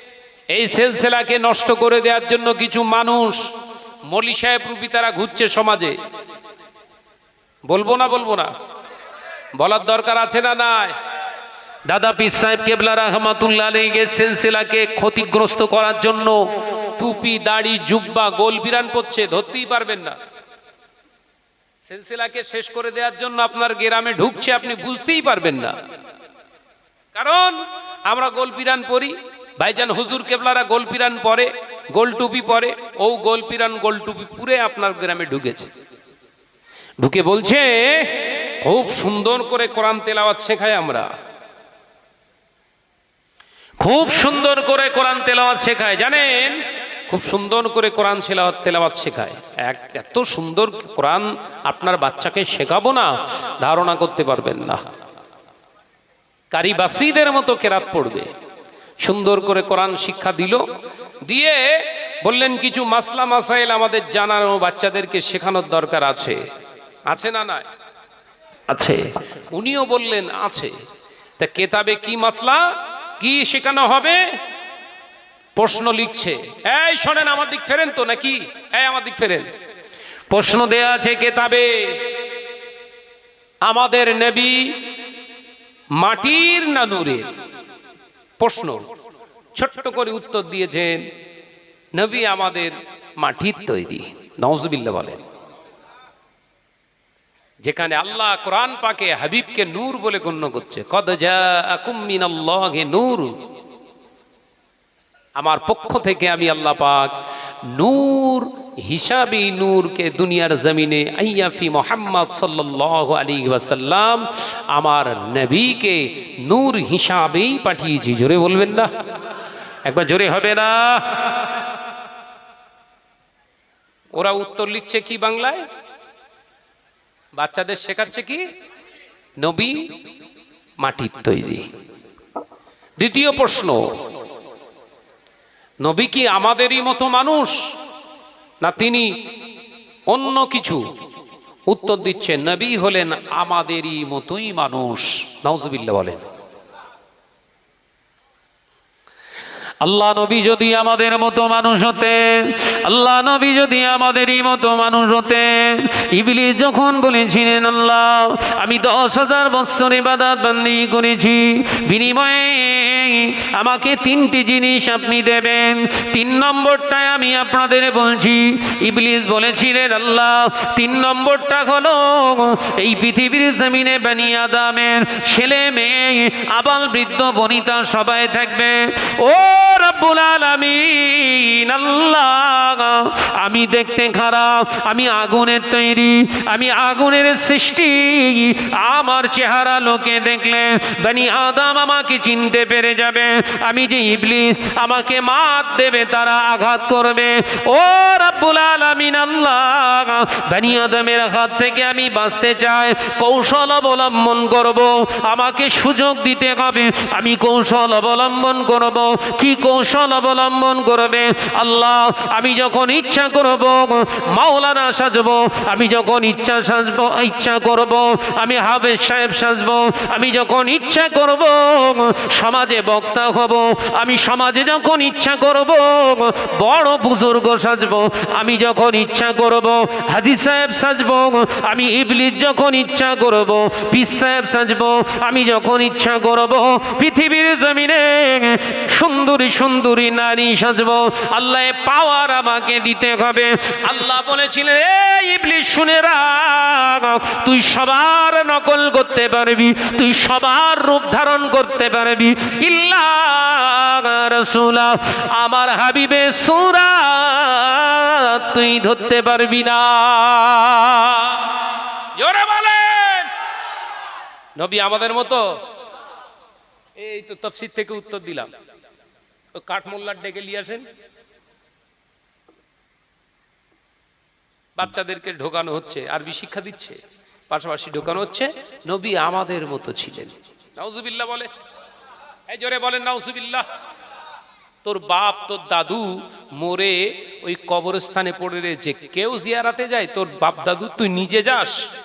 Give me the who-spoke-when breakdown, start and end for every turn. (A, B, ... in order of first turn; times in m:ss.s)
0:00.5-0:03.4 A
0:04.0-0:06.0 A
0:07.7-0:08.5 A
0:09.6-0:10.9 A
0:11.9-0:16.4 A
0:17.0-0:20.2 A
0:21.8-0:25.8 A
0:27.1-0:35.7 A
0:37.0-0:41.1 A
0:43.8-0:54.8 A
0:56.5-0:58.3 A
0:59.0-1:00.6 A
1:01.2-1:06.4 A
1:07.1-1:07.7 A
1:08.7-1:10.8 A
1:11.4-1:12.7 A
1:13.2-1:14.3 A
1:15.6-1:19.5 A
1:20.3-1:22.0 A
1:23.6-1:24.7 A
1:26.0-1:27.3 A
1:28.4-1:28.8 A
1:29.5-1:31.0 A
1:31.9-1:35.2 A
1:37.6-1:43.4 A
1:45.4-1:47.1 A
1:47.7-1:58.9 A
1:59.8-2:01.5 A
2:04.1-2:05.6 A
2:07.4-2:08.5 A
2:09.4-2:09.8 A
2:10.8-2:11.6 A
2:13.0-2:13.8 A
2:15.8-2:17.6 A
2:18.6-2:19.1 A
2:20.1-2:20.8 A
2:21.7-2:26.2 A
2:29.8-4:21.4 A
4:22.2-4:23.3 A
4:24.6-4:25.4 A
4:27.0-4:28.5 A
4:29.5-4:30.9 A
4:34.8-4:41.5 A
4:42.5-4:43.6 A
4:44.8-4:51.8 A